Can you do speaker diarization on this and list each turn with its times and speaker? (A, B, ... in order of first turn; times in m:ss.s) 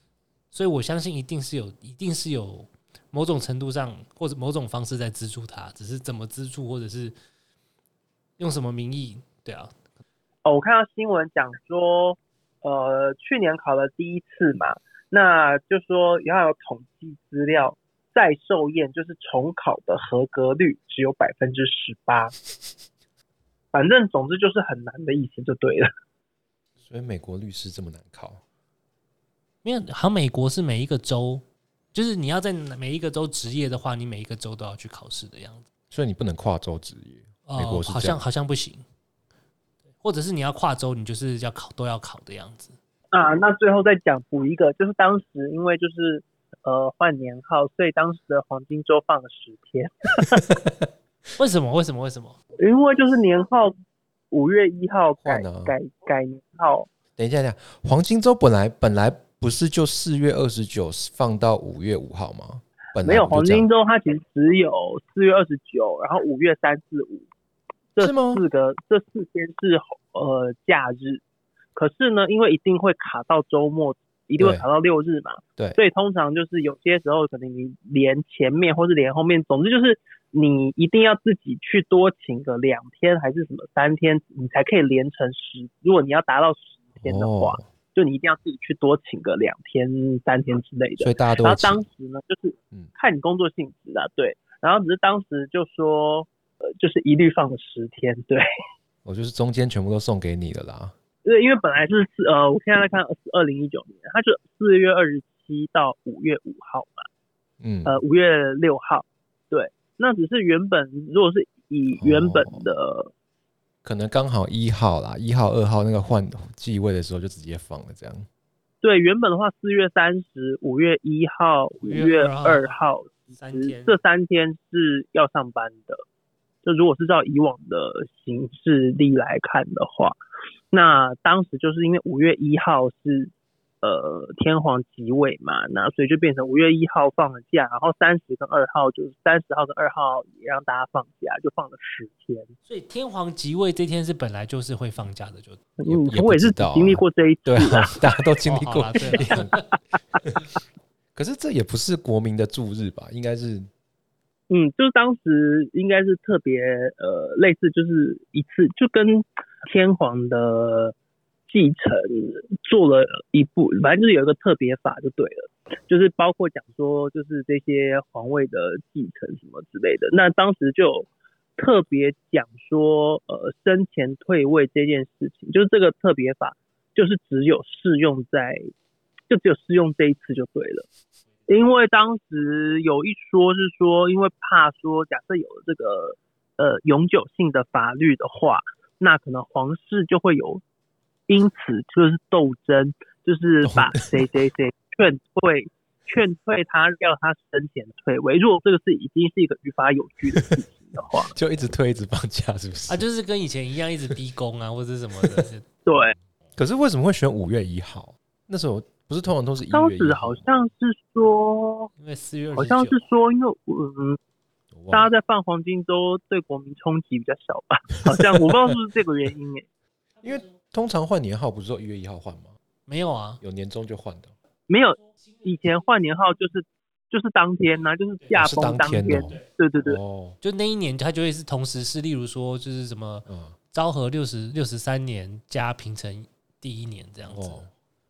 0:00.5-0:07.2 A
0:08.4-0:09.7 A
0:10.4-0:22.3 B
0:23.7-0:25.9 B
0:26.9-0:28.4 C
0:29.6-0:35.6 A
0:35.9-0:38.2 C
0:37.5-0:38.8 A
0:40.0-0:42.8 A
0:43.1-0:50.4 B
0:50.3-0:50.7 C
0:51.4-0:52.4 A
0:52.6-0:53.7 B
0:54.3-0:56.9 B
0:55.2-0:55.8 C
0:57.2-1:03.7 C
1:03.0-1:07.3 B
1:08.0-1:11.2 B
1:08.0-1:08.4 C
1:11.8-1:38.4 B
1:14.4-1:14.6 C
1:27.0-1:27.6 C
1:31.0-1:31.8 C
1:39.0-1:40.9 C
1:41.2-1:47.1 B
1:47.6-1:48.0 C
1:47.8-1:53.1 B
1:52.0-1:52.6 C
1:53.8-1:58.3 C
1:58.8-2:06.0 B
2:01.9-2:02.8 A
2:03.4-2:04.0 A
2:06.6-2:10.2 B
2:10.7-2:22.5 B
2:22.7-2:25.6 A
2:25.8-2:28.0 B
2:25.9-2:29.6 C
2:28.4-2:29.5 A
2:31.2-2:33.7 C
2:34.5-2:41.0 B
2:41.5-2:58.7 B
2:59.3-3:00.9 B
3:01.5-3:10.6 B
3:11.3-3:21.3 B
3:13.6-3:14.3 C
3:21.2-3:23.1 C
3:22.9-3:25.7 A
3:25.2-3:25.5 C
3:25.9-3:26.2 B
3:26.6-3:30.4 C
3:29.7-3:31.9 B
3:32.0-3:33.0 A
3:32.6-3:34.2 B
3:34.7-3:35.1 C
3:34.9-3:39.7 B
3:40.2-3:42.6 C
3:42.9-3:43.4 A
3:43.4-3:44.3 C
3:44.7-3:50.0 B
3:48.3-3:50.4 C
3:48.5-3:49.2 A
3:50.4-3:57.6 A
3:53.3-3:53.6 C
3:57.3-3:57.7 C